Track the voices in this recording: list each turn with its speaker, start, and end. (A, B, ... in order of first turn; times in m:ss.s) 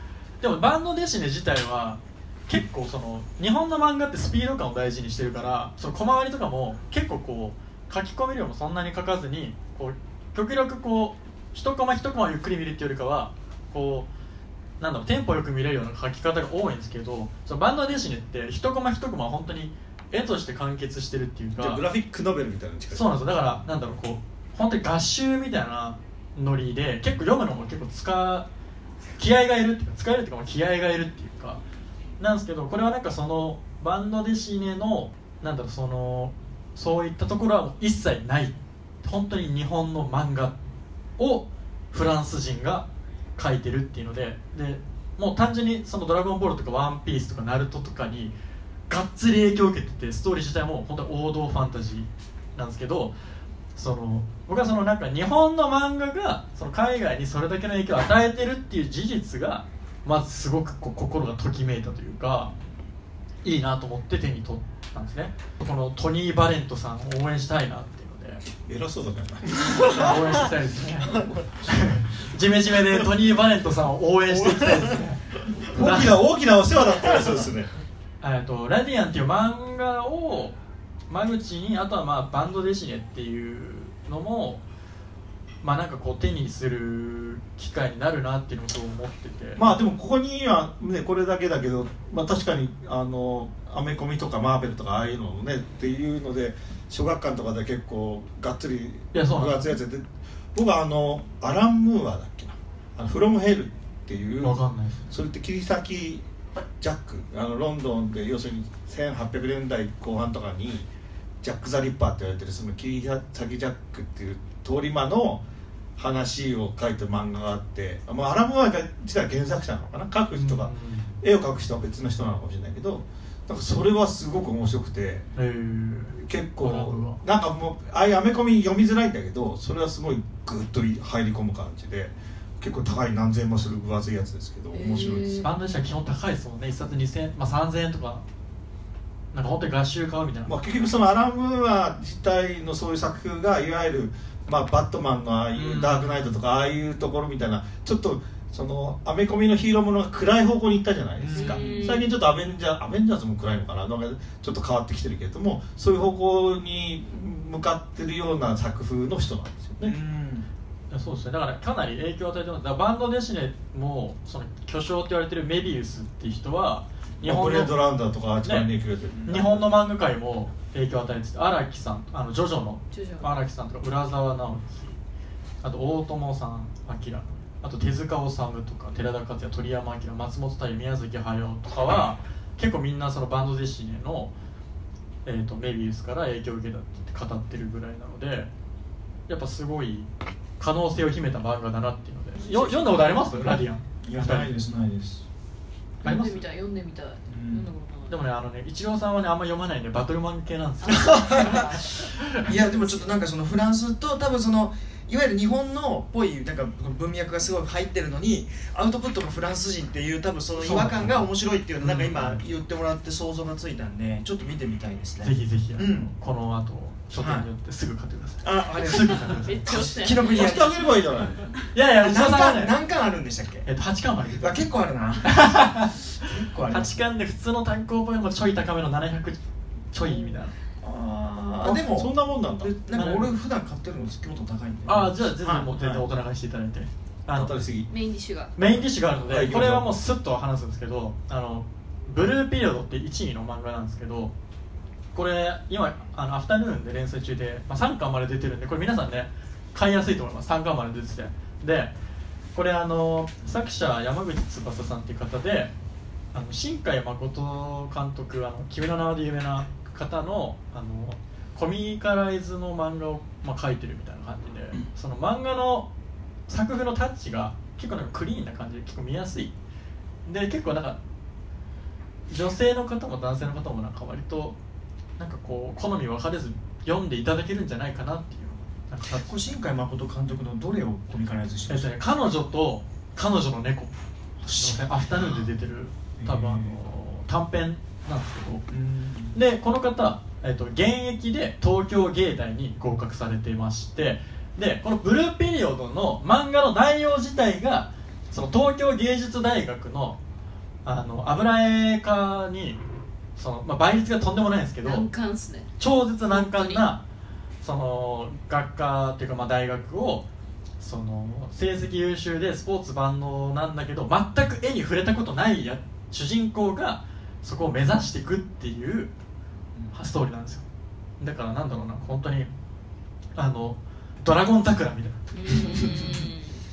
0:00.4-0:14.1 A
0:14.8-0:21.8 A
0:21.6-0:23.1 B
0:22.9-0:28.5 A
0:29.2-0:31.6 A
0:32.2-0:40.6 A
0:41.2-0:48.3 A
0:48.9-0:53.1 A
0:53.8-1:02.5 A
1:03.4-1:08.4 A
1:08.6-1:10.2 B
1:09.8-1:16.2 A
1:15.6-1:17.7 B
1:18.2-1:20.6 A
1:21.1-1:24.6 A
1:25.6-1:29.8 A
1:29.6-1:46.2 B
1:39.1-1:39.7 A
1:44.4-1:45.1 A
1:46.8-1:50.9 B
1:51.4-1:55.4 B
1:56.0-2:05.3 B
2:00.3-2:01.1 A
2:05.4-2:07.2 A
2:06.2-2:15.5 B
2:14.7-2:15.5 C
2:15.4-2:18.2 A
2:19.3-2:20.5 A
2:20.5-2:40.0 B
2:25.5-2:26.1 A
2:31.2-2:31.9 D
2:31.3-2:32.1 C
2:39.8-2:40.5 D
2:40.9-2:47.8 A
2:47.2-2:49.7 B
2:48.4-2:48.7 A
2:49.3-2:55.0 A
2:52.9-2:53.3 C
2:55.6-3:04.3 A
3:05.2-3:08.5 A
3:09.3-3:10.1 A
3:10.6-3:14.5 A
3:12.4-3:15.2 D
3:16.0-3:18.2 C
3:16.0-3:16.4 A
3:17.3-3:17.7 D
3:18.1-3:22.4 A
3:20.8-3:23.2 C
3:21.3-3:21.6 D
3:22.4-3:36.1 D
3:30.6-3:32.4 A
3:35.2-3:39.7 A
3:37.1-3:37.5 D
3:38.4-3:40.9 D
3:38.9-3:40.6 C
3:39.7-3:41.5 B
3:41.7-3:42.8 A
3:42.0-3:43.7 D
3:43.7-3:44.6 A
3:44.4-3:45.6 D
3:45.2-3:46.1 A
3:46.2-3:47.0 D
3:46.7-3:49.4 A
3:49.9-3:50.6 A
3:50.8-3:55.7 D
3:51.6-3:52.7 B
3:52.9-3:53.3 A
3:54.9-3:57.5 A
3:55.8-3:56.0 B
3:57.3-3:57.9 B
3:57.9-3:58.5 C
3:58.6-4:04.3 A
3:59.3-3:59.9 B
4:05.1-4:11.9 A
4:12.5-4:15.7 A
4:16.3-4:25.9 A
4:26.5-4:29.5 A
4:30.3-4:31.0 A
4:32.3-4:34.6 A
4:35.2-4:39.3 A
4:39.1-4:41.9 D
4:41.7-4:43.9 A
4:44.4-4:45.5 D
4:44.5-4:48.7 A
4:46.2-4:46.8 D
4:48.7-4:49.4 D
4:49.3-5:00.2 A
5:00.8-5:02.8 A
5:03.4-5:05.0 A
5:04.8-5:05.7 C
5:05.8-5:07.0 A
5:06.3-5:06.8 C
5:07.6-5:10.3 A
5:10.8-5:19.1 A
5:19.9-5:20.6 A
5:21.2-5:22.5 A
5:23.4-5:25.2 A
5:25.3-5:26.6 C